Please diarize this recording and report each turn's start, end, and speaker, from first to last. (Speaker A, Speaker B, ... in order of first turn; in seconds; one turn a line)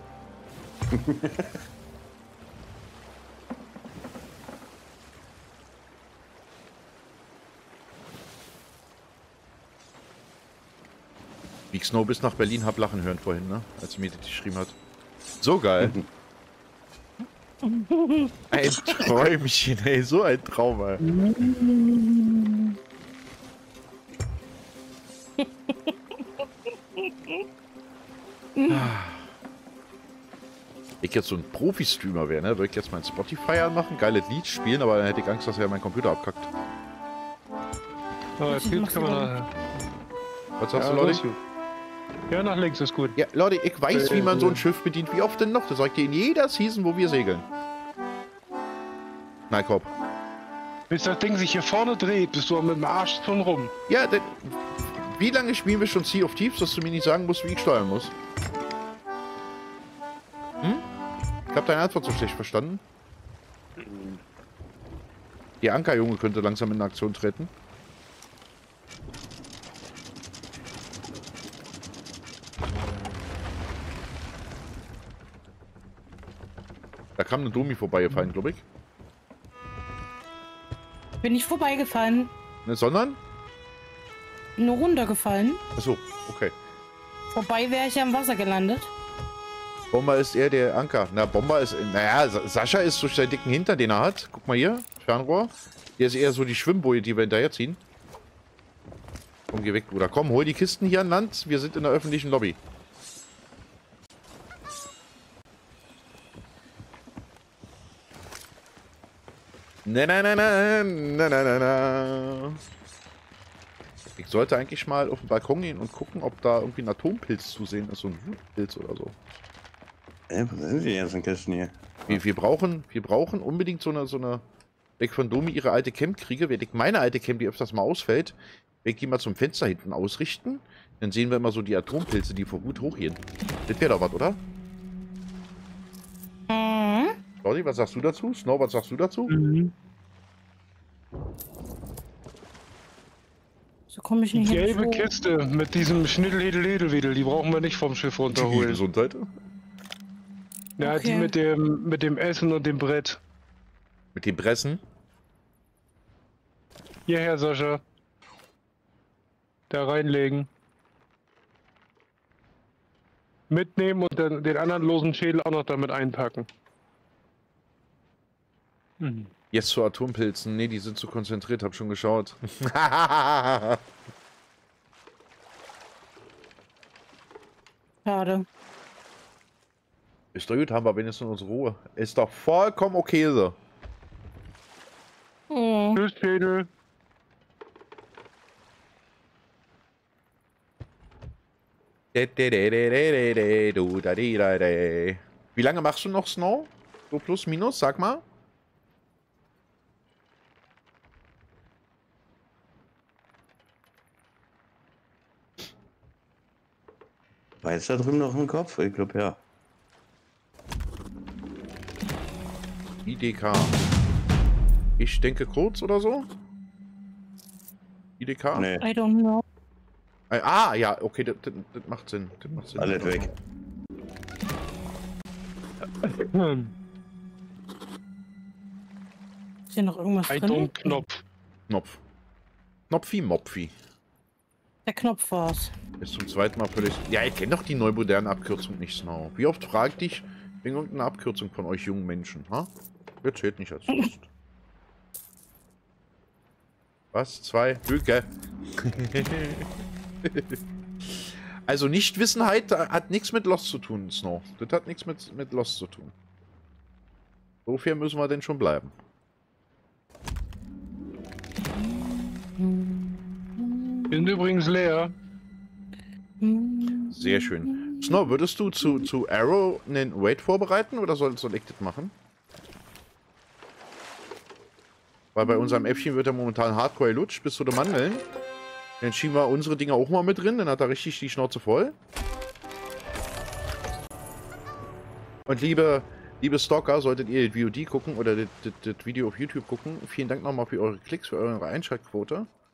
Speaker A: 0.9-1.6
Speaker B: 11.7-14.7
Speaker B: 15.4-16.0
Speaker C: 17.6-19.1
Speaker B: 18.5-21.0
Speaker C: 21.1-22.6
Speaker C: 25.4-25.9
Speaker C: 27.0-27.4
Speaker C: 28.6-28.9
Speaker B: 28.7-29.2
Speaker B: 31.0-36.5
Speaker D: 38.4-39.5
Speaker C: 38.5-39.3
Speaker B: 40.6-41.2
Speaker D: 40.8-41.4
Speaker D: 42.3-43.2
Speaker B: 43.1-47.5
Speaker D: 43.9-44.6
Speaker B: 49.5-49.9
Speaker D: 50.9-53.7
Speaker B: 53.9-58.1
Speaker B: 61.5-62.8
Speaker D: 63.8-64.2
Speaker B: 65.6-67.5
Speaker B: 77.2-78.6
Speaker C: 81.2-82.3
Speaker B: 82.6-83.2
Speaker C: 84.6-85.6
Speaker B: 85.8-86.5
Speaker C: 87.3-88.9
Speaker B: 89.9-97.8
Speaker B: 99.5-102.6
Speaker B: 109.8-112.6
Speaker B: 114.2-119.2
Speaker A: 120.3-121.8
Speaker B: 122.1-124.4
Speaker B: 125.0-134.4
Speaker C: 136.5-137.1
Speaker B: 137.4-139.3
Speaker D: 139.3-139.7
Speaker C: 143.9-145.1
Speaker D: 144.3-148.8
Speaker B: 148.3-149.3
Speaker D: 150.8-153.2
Speaker C: 150.8-151.3
Speaker B: 154.1-154.8
Speaker D: 157.1-157.8
Speaker D: 159.7-160.5
Speaker D: 163.5-166.5
Speaker D: 169.0-169.3
Speaker B: 169.5-173.8
Speaker C: 178.1-178.4
Speaker B: 180.3-183.5
Speaker C: 185.5-186.0
Speaker D: 185.9-186.7
Speaker B: 192.1-198.2
Speaker A: 207.6-209.4
Speaker B: 213.0-213.8
Speaker B: 215.0-216.3
Speaker B: 218.2-218.7
Speaker A: 218.5-218.8
Speaker C: 218.8-219.4
Speaker B: 220.3-223.3
Speaker A: 222.8-223.3
Speaker D: 226.0-226.7
Speaker C: 229.7-231.0
Speaker D: 230.3-231.2
Speaker B: 231.7-232.0
Speaker B: 232.9-233.7
Speaker C: 234.8-235.7
Speaker B: 236.0-242.7
Speaker B: 243.2-244.3
Speaker B: 247.1-249.7
Speaker B: 250.2-250.6
Speaker B: 251.1-256.1
Speaker B: 257.6-258.9
Speaker C: 261.7-264.4
Speaker D: 264.1-265.1
Speaker C: 266.4-269.1
Speaker B: 267.1-272.1
Speaker B: 275.3-278.2
Speaker C: 275.4-275.8
Speaker B: 279.0-281.9
Speaker B: 285.5-292.5